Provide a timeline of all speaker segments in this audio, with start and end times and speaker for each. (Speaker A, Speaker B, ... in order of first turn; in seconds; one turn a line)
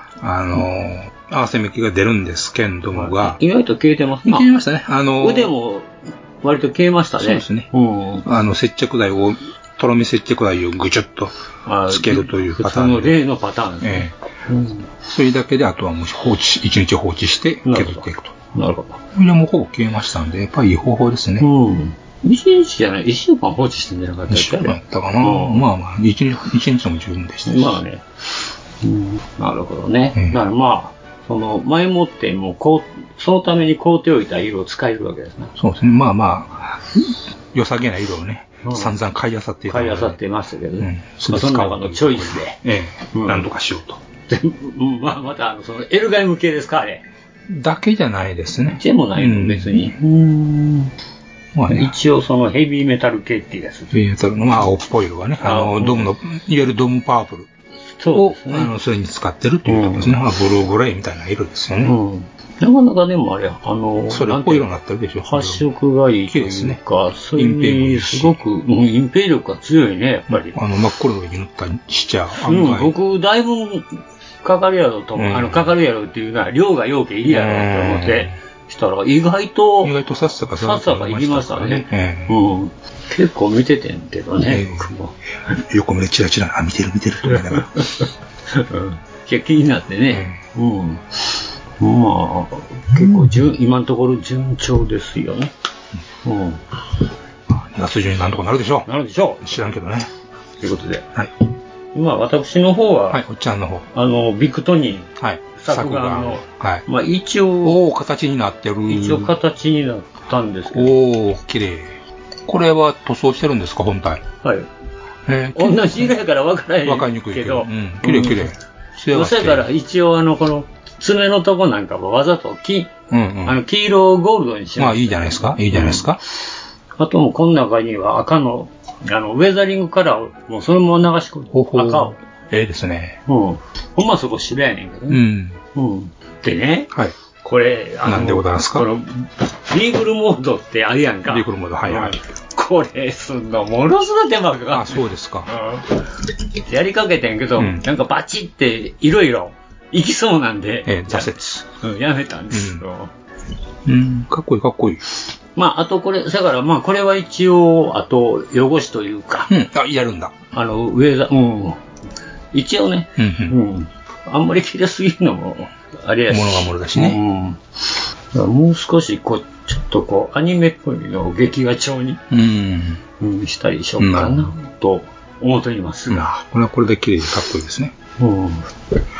Speaker A: 0.2-3.4
Speaker B: 2.9-4.5
Speaker A: 4.2-5.5
Speaker B: 5.2-8.3
Speaker A: 7.2-7.7
Speaker A: 8.2-11.3
Speaker B: 11.7-14.9
Speaker A: 11.9-13.2
Speaker A: 13.8-14.1
Speaker A: 15.0-18.4
Speaker B: 17.6-19.0
Speaker A: 19.1-21.5
Speaker B: 21.4-25.6
Speaker A: 24.3-27.8
Speaker B: 27.5-28.1
Speaker B: 28.8-35.5
Speaker A: 35.6-40.2
Speaker B: 38.6-39.0
Speaker B: 39.7-42.6
Speaker A: 40.8-44.0
Speaker B: 43.1-43.5
Speaker B: 44.3-47.0
Speaker A: 47.5-50.0
Speaker B: 48.7-50.9
Speaker A: 51.5-52.0
Speaker B: 51.7-53.9
Speaker A: 53.9-57.5
Speaker B: 55.4-56.1
Speaker B: 58.0-58.7
Speaker A: 58.1-62.0
Speaker B: 59.7-60.2
Speaker B: 61.8-64.7
Speaker A: 64.1-65.6
Speaker B: 65.2-70.6
Speaker A: 66.3-66.8
Speaker A: 67.4-68.4
Speaker A: 70.3-72.9
Speaker B: 72.3-80.0
Speaker A: 75.2-75.7
Speaker A: 77.2-78.4
Speaker A: 79.8-82.3
Speaker B: 80.6-85.2
Speaker A: 84.5-84.9
Speaker A: 85.6-87.8
Speaker B: 87.3-95.5
Speaker A: 90.1-90.4
Speaker B: 96.2-96.6
Speaker A: 97.5-98.9
Speaker B: 98.9-99.7
Speaker A: 99.4-100.1
Speaker B: 100.6-101.1
Speaker B: 101.9-103.2
Speaker A: 103.1-103.9
Speaker B: 103.9-107.8
Speaker A: 105.2-106.8
Speaker A: 107.6-109.3
Speaker B: 108.9-110.9
Speaker A: 110.7-114.2
Speaker B: 114.4-114.7
Speaker A: 115.3-116.1
Speaker B: 115.6-118.5
Speaker A: 116.8-119.7
Speaker B: 119.1-122.9
Speaker A: 123.1-123.6
Speaker B: 123.4-126.2
Speaker A: 124.8-126.2
Speaker B: 127.0-132.2
Speaker A: 131.5-133.2
Speaker B: 133.3-135.2
Speaker A: 135.1-135.6
Speaker B: 135.7-136.9
Speaker B: 137.4-146.1
Speaker A: 138.0-138.9
Speaker A: 141.3-142.2
Speaker A: 144.7-145.5
Speaker B: 146.6-153.1
Speaker A: 147.6-147.8
Speaker A: 150.9-151.7
Speaker A: 152.5-152.8
Speaker A: 153.8-155.0
Speaker B: 155.6-159.5
Speaker A: 159.5-160.3
Speaker B: 160.5-161.8
Speaker B: 162.5-167.6
Speaker A: 163.2-163.6
Speaker A: 166.3-167.2
Speaker B: 168.3-172.2
Speaker A: 172.3-173.0
Speaker B: 173.2-176.3
Speaker A: 174.0-174.5
Speaker A: 176.1-177.9
Speaker B: 178.2-178.8